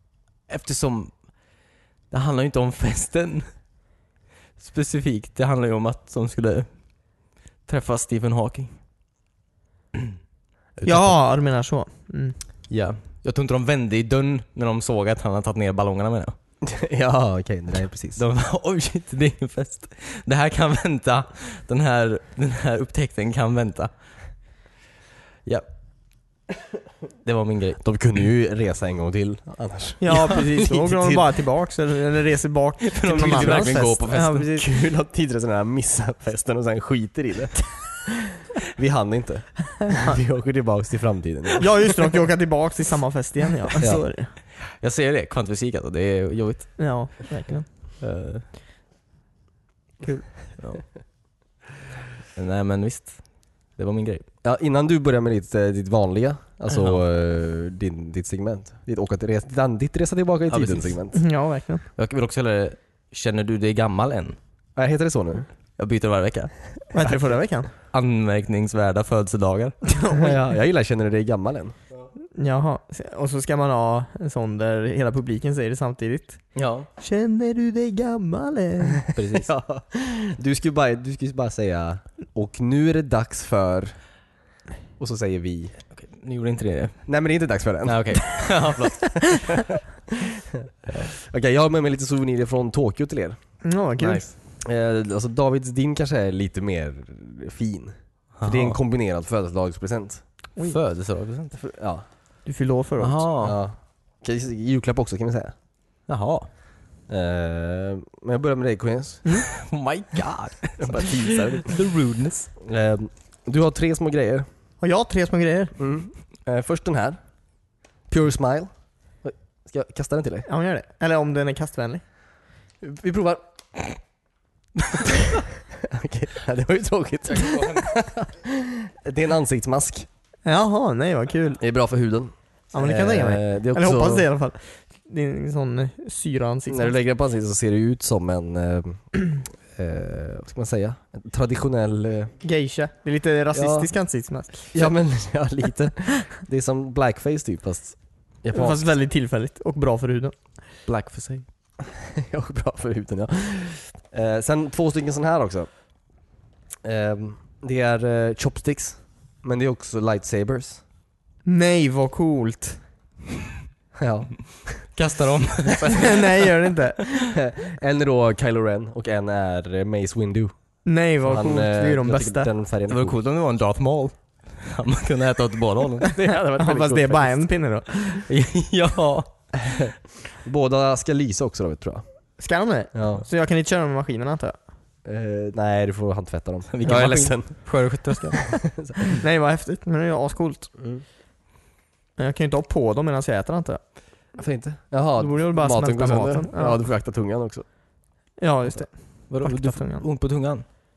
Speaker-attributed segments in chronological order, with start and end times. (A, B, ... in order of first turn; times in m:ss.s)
0:00.5-0:03.6 A
0:04.6-0:08.8 A
0:10.8-0:11.2 A
0:10.8-0:12.4 B
0:12.7-0:16.4 A
0:16.6-0:18.2 C
0:18.2-0:24.4 A
0:27.2-0:27.8 A
0:27.8-0:31.3 C
0:30.0-0:34.6 B
0:32.8-0:34.5 A
0:33.1-0:42.0 C
0:41.6-0:44.3 B
0:44.4-0:47.2 A
0:46.8-0:47.7 B
0:48.0-0:48.5 A
0:50.6-0:51.0 A
0:52.3-0:54.3 A
0:54.4-1:01.2 C
1:00.5-1:01.0 A
1:01.1-1:01.8 B
1:02.0-1:04.4 A
1:04.8-1:05.5 C
1:05.8-1:06.5 A
1:06.9-1:07.7 B
1:07.9-1:09.9 A
1:09.9-1:10.3 B
1:10.1-1:11.7 C
1:12.3-1:19.1 B
1:16.5-1:16.9 A
1:19.1-1:19.5 A
1:19.4-1:24.0 C
1:25.0-1:25.7 C
1:25.9-1:27.2 A
1:27.0-1:28.7 C
1:27.8-1:29.5 A
1:30.6-1:33.4 C
1:33.6-1:34.2 B
1:34.0-1:34.3 A
1:34.6-1:40.2 C
1:38.3-1:38.8 A
1:40.6-1:41.6 A
1:41.6-1:42.0 C
1:42.4-1:43.3 B
1:43.0-1:43.6 A
1:43.4-1:45.5 C
1:46.1-1:46.5 A
1:47.1-1:49.2 C
1:49.5-1:52.5 A
1:50.8-1:51.7 C
1:52.6-1:54.4 C
1:54.8-1:55.7 B
1:55.8-1:57.2 C
1:58.1-2:00.5 C
2:00.5-2:02.0 B
2:02.8-2:03.9 C
2:05.8-2:10.1 C
2:07.4-2:07.8 A
2:10.4-2:11.6 B
2:11.6-2:14.2 C
2:12.7-2:16.9 B
2:16.7-2:22.3 C
2:22.4-2:24.9 B
2:23.5-2:23.9 C
2:24.7-2:28.9 C
2:28.5-2:30.4 B
2:30.8-2:31.4 A
2:31.8-2:35.8 C
2:36.8-2:40.8 C
2:41.4-2:42.8 B
2:44.0-2:44.9 C
2:44.8-2:46.7 A
2:45.9-2:47.3 B
2:47.3-2:53.2 C
2:50.8-2:52.5 B
2:52.9-2:56.1 A
2:56.0-2:58.3 B
2:56.1-2:57.4 C
2:58.3-2:59.9 A
3:00.4-3:02.0 C
3:02.4-3:04.6 B
3:02.9-3:03.2 C
3:05.0-3:07.9 C
3:06.7-3:08.6 A
3:09.1-3:10.7 B
3:10.8-3:11.0 C
3:12.2-3:14.3 B
3:14.3-3:17.6 C
3:15.2-3:16.8 B
3:18.4-3:20.0 B
3:19.3-3:20.6 A